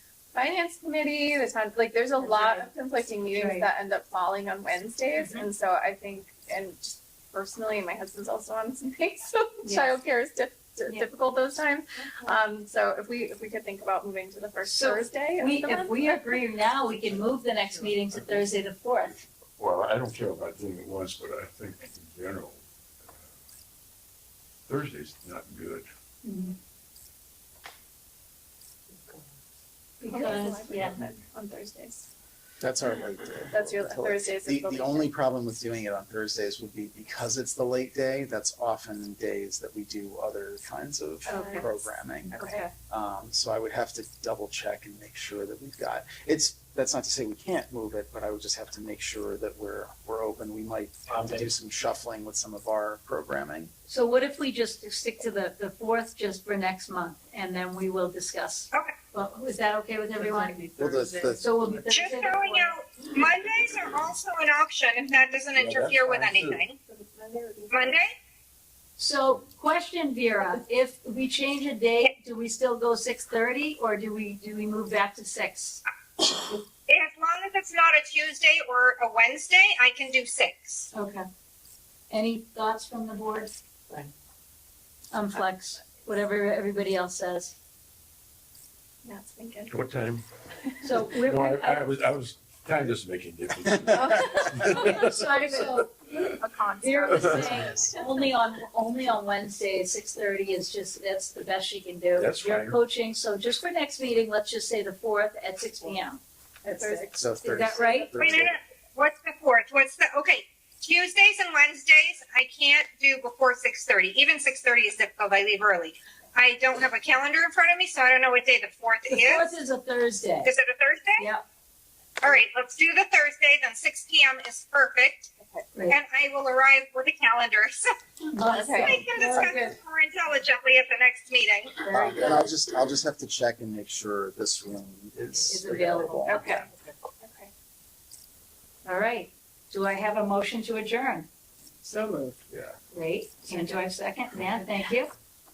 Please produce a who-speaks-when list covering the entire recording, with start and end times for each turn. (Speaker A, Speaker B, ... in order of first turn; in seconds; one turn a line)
Speaker A: 0.3-16.4
Speaker B: 2.2-2.7
Speaker B: 3.3-3.7
Speaker B: 5.2-5.5
Speaker B: 9.6-10.0
Speaker B: 14.7-19.2
Speaker C: 19.6-22.6
Speaker C: 24.7-25.9
Speaker B: 26.2-26.6
Speaker A: 30.0-32.1
Speaker B: 30.0-31.0
Speaker D: 32.6-53.7
Speaker A: 33.5-35.1
Speaker B: 41.3-41.8
Speaker A: 41.3-41.7
Speaker A: 42.3-42.6
Speaker B: 42.4-42.7
Speaker B: 53.9-62.8
Speaker D: 60.8-61.5
Speaker E: 61.9-66.8
Speaker C: 65.6-66.6
Speaker A: 66.8-68.0
Speaker E: 67.7-68.1
Speaker B: 69.0-75.8
Speaker E: 76.9-80.9
Speaker B: 80.9-81.3
Speaker B: 82.1-83.6
Speaker B: 85.1-87.5
Speaker A: 89.0-89.8
Speaker C: 89.7-90.2
Speaker B: 90.8-91.9
Speaker C: 91.2-96.4
Speaker A: 93.9-95.0
Speaker B: 94.6-95.9
Speaker A: 96.1-98.0
Speaker B: 96.8-108.1
Speaker C: 97.0-97.8
Speaker C: 102.2-102.8
Speaker A: 106.6-107.2
Speaker D: 107.1-108.6
Speaker E: 108.2-119.5
Speaker B: 119.1-120.5
Speaker E: 120.4-121.3
Speaker B: 121.2-121.4
Speaker E: 122.2-125.3
Speaker A: 125.4-125.7
Speaker E: 125.9-127.9
Speaker B: 128.3-129.7
Speaker A: 128.4-129.3
Speaker E: 128.8-131.9
Speaker B: 131.8-132.5
Speaker D: 131.9-136.6
Speaker B: 135.4-136.6
Speaker A: 136.3-137.5
Speaker B: 138.8-141.3
Speaker C: 142.5-142.8
Speaker B: 142.9-145.1